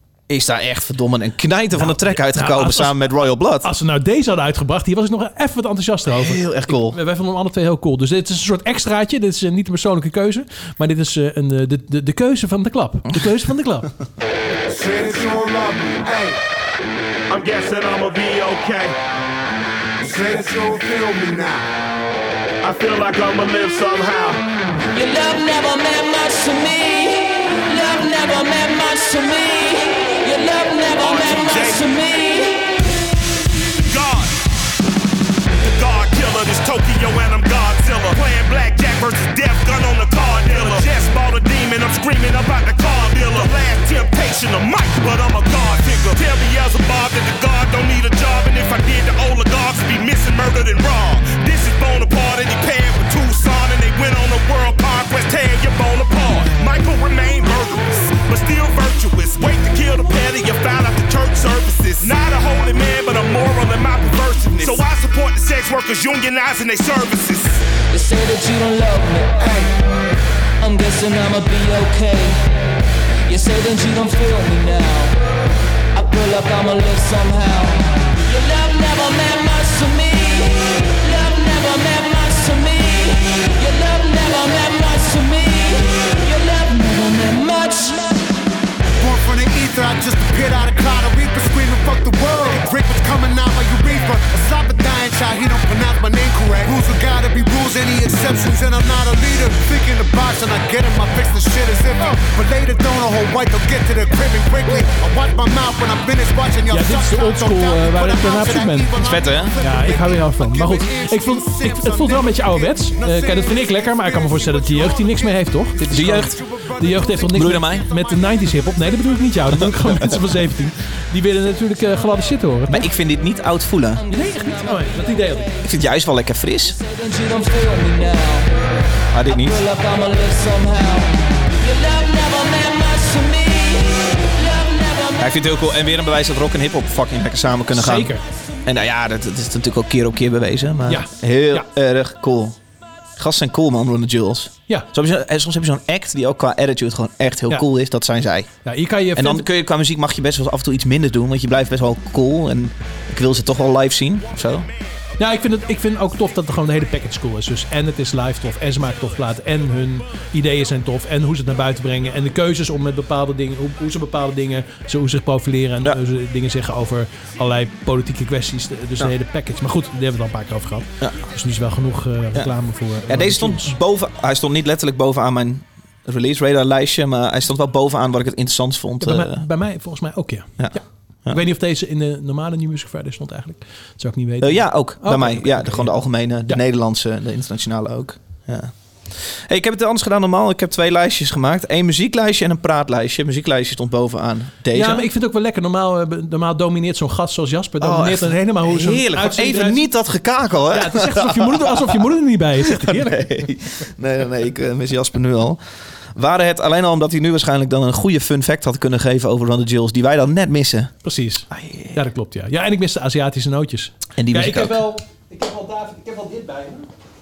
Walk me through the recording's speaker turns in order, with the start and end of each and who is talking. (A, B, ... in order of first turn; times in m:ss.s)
0:00.3-0:03.7 A
0:01.7-0:03.0 B
0:03.6-0:13.9 B
0:06.1-0:07.0 A
0:14.7-0:16.4 C
0:17.3-0:19.0 D
0:20.0-0:21.7 C
0:22.6-0:24.4 D
0:24.9-0:32.9 E
0:31.0-0:32.2 D
0:33.8-0:34.3 D
0:35.6-1:07.6 D
1:07.9-1:09.4 E
1:09.4-1:09.7 C
1:10.6-1:12.5 E
1:13.3-1:15.2 E
1:15.9-1:28.2 E
1:29.0-1:59.1 C
1:46.7-1:49.0 B
1:49.0-1:49.6 A
1:49.6-2:02.9 B
1:55.9-1:56.4 A
1:57.3-1:57.9 A
1:59.5-2:00.4 A
2:02.7-2:04.0 A
2:04.0-2:05.7 E
2:04.1-2:05.5 B
2:05.6-2:06.8 A
2:06.7-2:08.8 E
2:09.1-2:09.6 A
2:09.3-2:15.4 E
2:15.2-2:18.1 A
2:17.7-2:18.2 B
2:18.6-2:22.6 A
2:20.9-2:21.7 B
2:23.2-2:28.5 A
2:28.6-2:29.5 B
2:29.2-2:34.7 A
2:35.2-2:53.7 B
2:53.1-2:59.4 A
2:59.0-3:06.6 B
3:00.6-3:01.4 A
3:04.4-3:15.1 A
3:14.7-3:19.8 B
3:17.8-3:22.0 A
3:20.7-3:23.4 B
3:22.6-3:25.6 A
3:26.2-3:30.9 A
3:31.0-3:36.9 B
3:31.5-3:32.0 A
3:34.2-3:34.8 A